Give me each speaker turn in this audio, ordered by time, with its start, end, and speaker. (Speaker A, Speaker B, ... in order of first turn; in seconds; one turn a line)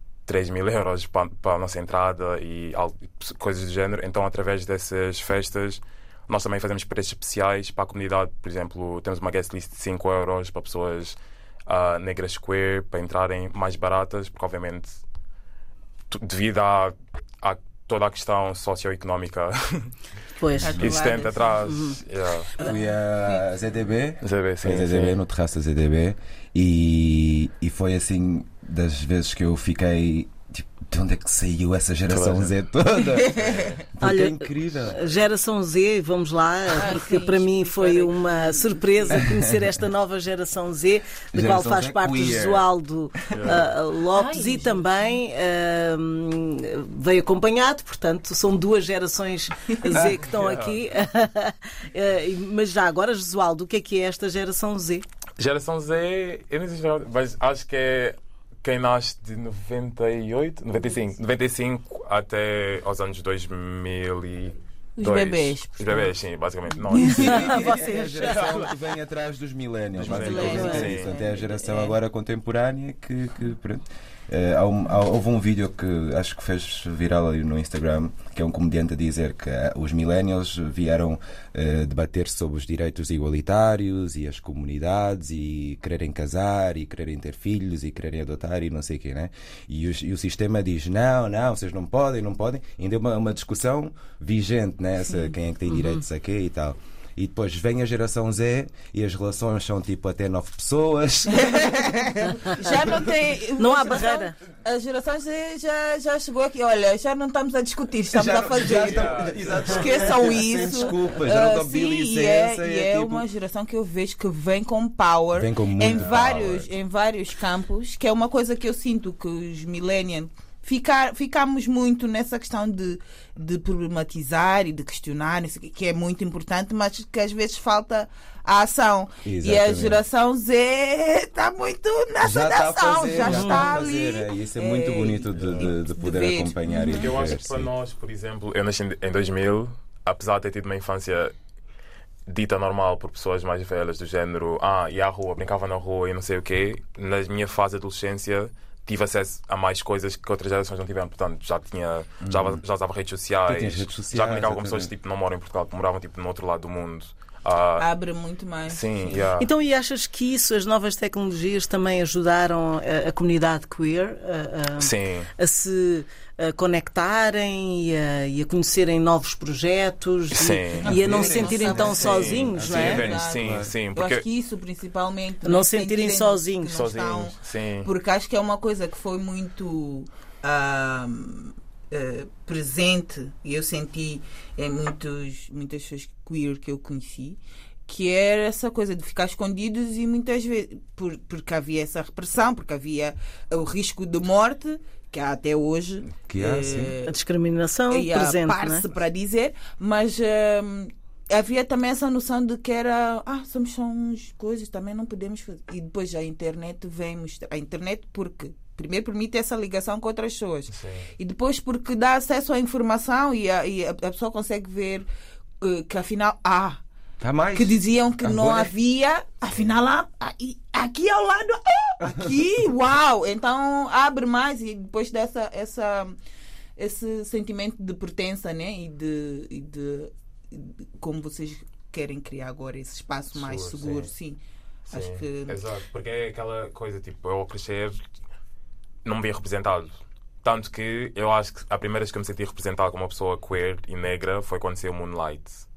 Speaker A: 0.2-15.0
Speaker A: 16.1-19.9
Speaker B: 20.4-21.1
Speaker C: 20.6-21.6
Speaker A: 20.6-22.5
Speaker B: 21.6-22.0
Speaker C: 22.6-23.4
Speaker D: 22.6-35.1
Speaker A: 24.2-25.2
Speaker A: 32.1-32.5
Speaker C: 33.1-33.8
Speaker A: 33.4-33.8
Speaker B: 34.0-55.0
Speaker C: 36.7-39.2
Speaker D: 39.1-39.7
Speaker D: 41.3-42.6
Speaker A: 43.3-43.7
Speaker C: 44.1-45.0
Speaker D: 49.9-50.2
Speaker A: 50.3-50.8
Speaker A: 55.4-68.7
Speaker C: 65.0-66.1
Speaker C: 66.9-67.8
Speaker B: 67.2-68.5
Speaker D: 67.3-103.1
Speaker A: 70.0-71.1
Speaker C: 70.0-72.0
Speaker B: 70.3-70.9
Speaker B: 95.7-96.0
Speaker C: 101.3-137.3
Speaker B: 103.6-104.3
Speaker D: 108.1-113.2
Speaker A: 108.7-110.0
Speaker D: 115.3-116.7
Speaker A: 115.9-116.5
Speaker D: 129.2-130.0
Speaker D: 132.2-137.7
Speaker B: 133.2-133.7
Speaker A: 136.8-141.3
Speaker A: 142.3-157.9
Speaker D: 152.2-152.6
Speaker D: 153.4-154.9
Speaker C: 157.8-159.3
Speaker A: 158.7-159.5
Speaker B: 159.4-173.0
Speaker A: 164.8-165.3
Speaker A: 170.3-174.2
Speaker D: 170.7-173.7
Speaker C: 170.8-197.1
Speaker B: 175.4-176.8
Speaker A: 176.7-177.9
Speaker D: 196.3-197.0
Speaker B: 197.0-198.8
Speaker C: 197.9-215.1
Speaker A: 210.7-211.1
Speaker C: 215.6-216.8
Speaker D: 217.2-218.7
Speaker C: 217.5-226.2
Speaker D: 222.0-222.3
Speaker C: 226.8-234.4
Speaker A: 233.3-234.1
Speaker A: 234.9-238.0
Speaker C: 234.9-235.6
Speaker A: 239.0-245.6